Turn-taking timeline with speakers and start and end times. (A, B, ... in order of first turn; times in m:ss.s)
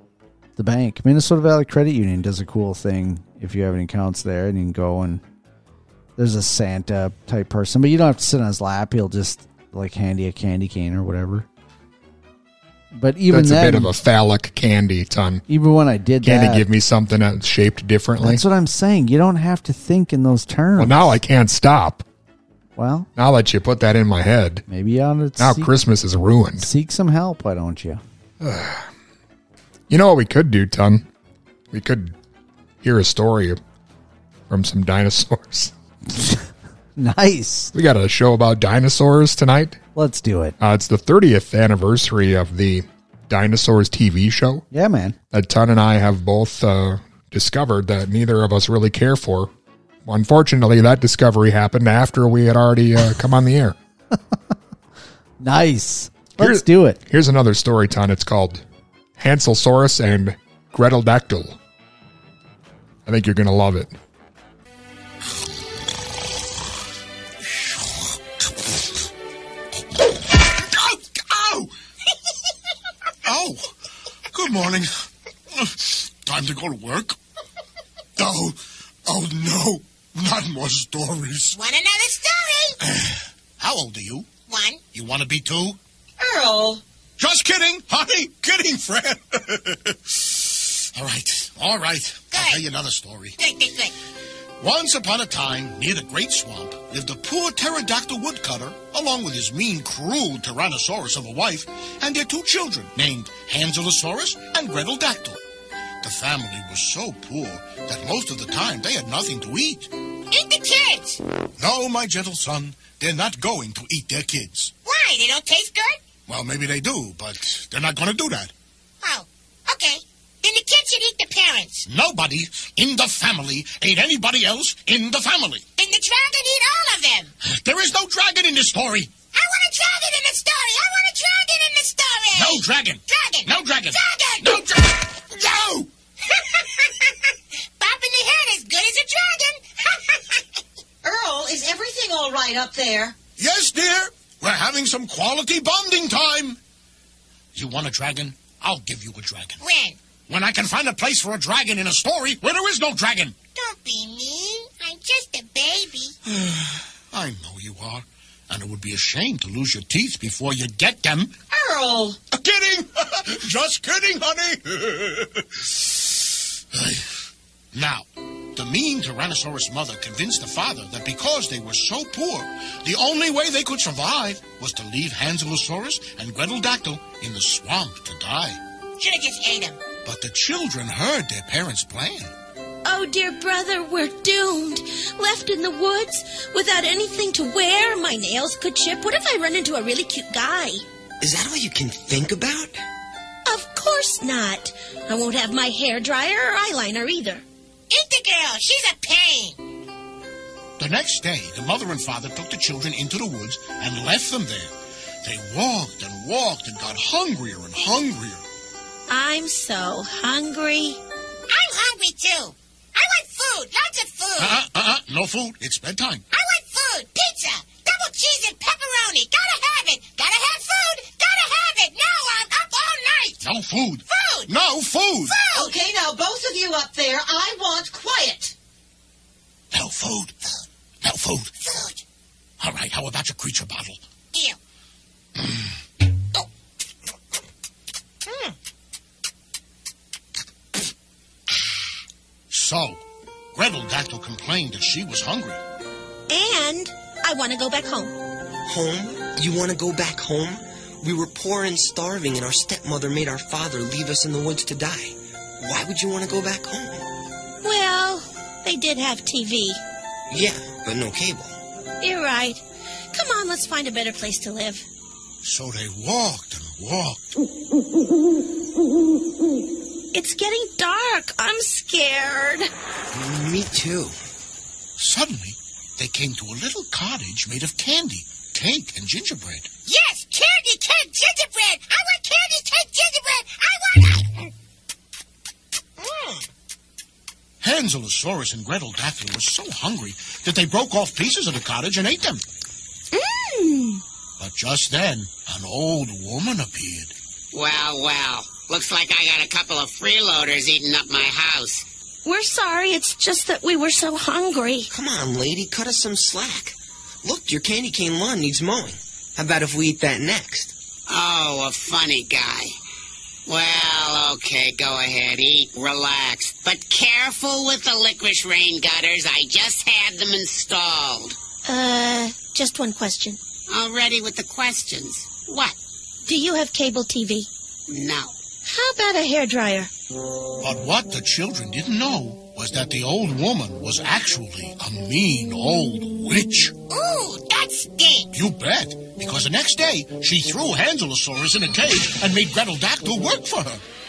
0:00.6-0:05.2 A
0:06.2-0:11.5 A
0:12.9-0:13.9 A
0:13.3-0:15.4 B
0:15.5-0:16.6 A
0:16.2-0:18.4 B
0:18.2-0:21.2 A
0:20.8-0:22.0 B
0:22.8-0:23.1 A
0:23.2-0:24.6 B
0:24.7-0:25.7 A
0:25.4-0:26.7 B
0:26.6-0:28.0 A
0:28.4-0:28.9 B
0:29.9-0:31.1 B
0:31.7-0:32.1 B
0:32.8-0:33.6 B
0:34.5-0:35.7 B
0:36.1-0:36.4 A
0:37.0-0:37.7 A
0:37.7-0:39.8 B
0:40.0-0:40.6 A
0:40.6-0:44.6 B
0:44.7-0:45.2 A
0:45.3-0:49.5 B
0:50.0-0:53.8 B
0:55.4-0:57.0 A
0:56.4-0:58.6 B
0:59.2-1:01.6 B
1:03.1-1:03.9 B
1:10.6-1:11.7 C
1:13.2-1:13.6 C
1:14.3-1:14.9 C
1:15.5-1:17.2 C
1:18.2-1:21.6 C
1:21.5-1:22.8 D
1:22.8-1:24.3 C
1:24.5-1:24.8 D
1:24.9-1:25.8 C
1:26.2-1:26.8 E
1:27.2-1:33.4 C
1:32.3-1:32.6 D
1:33.4-1:34.0 D
1:34.6-1:45.4 C
1:46.0-1:49.9 C
1:50.3-1:51.2 D
1:51.6-1:54.7 C
1:54.8-1:56.0 D
1:56.3-1:58.5 C
1:59.0-2:01.9 D
2:01.9-2:05.6 C
2:05.8-2:07.3 D
2:07.4-2:09.2 C
2:09.3-2:14.8 D
2:12.3-2:15.9 C
2:16.5-2:17.1 D
2:17.8-2:20.4 D
2:21.0-2:23.2 E
2:23.4-2:26.6 C
2:27.6-2:29.6 C
2:29.6-2:30.0 D
2:30.3-2:33.4 C
2:33.6-2:36.2 D
2:36.3-2:41.3 C
2:41.5-2:42.2 E
2:42.3-2:47.0 C
2:47.7-2:58.6 C
2:59.0-2:59.8 D
3:00.0-3:02.3 C
3:02.8-3:10.8 F
3:11.2-3:12.8 G
3:13.5-3:17.4 F
3:17.9-3:19.6 D
3:20.8-3:24.7 C
3:25.2-3:28.4 C
3:29.1-3:31.0 F
3:31.5-3:34.6 D
3:34.4-3:36.2 C
3:36.3-3:43.4 D
3:43.4-3:45.4 C
3:44.1-3:44.5 D
3:45.3-3:45.7 D
3:45.4-3:48.6 E
3:49.7-3:50.3 C
3:51.0-3:51.5 C
3:51.6-3:52.0 D
3:52.6-3:54.0 C
3:55.4-3:55.6 C
3:58.3-3:58.5 D
4:02.5-4:03.0 C
4:03.5-4:05.6 C
4:06.3-4:08.2 F
4:08.7-4:17.0 G
4:17.6-4:19.8 F
4:20.3-4:21.6 G
4:22.0-4:24.9 F
4:25.4-4:27.3 C
4:30.1-4:32.7 F
4:33.1-4:34.2 G
4:35.0-4:39.7 C
4:39.9-4:44.5 D
4:46.0-4:46.4 D
4:47.6-4:52.4 C
4:53.1-4:54.0 F
4:54.4-4:57.1 C
4:57.5-5:01.9 H
5:02.2-5:04.9 F
5:04.9-5:10.7 G
5:11.1-5:12.8 H
5:13.5-5:21.4 H
5:21.6-5:23.4 F
5:23.7-5:25.8 H
5:26.2-5:27.5 F
5:27.9-5:28.4 H
5:28.6-5:29.9 F
5:30.6-5:36.8 C
5:36.9-5:38.3 D
5:38.3-5:43.8 C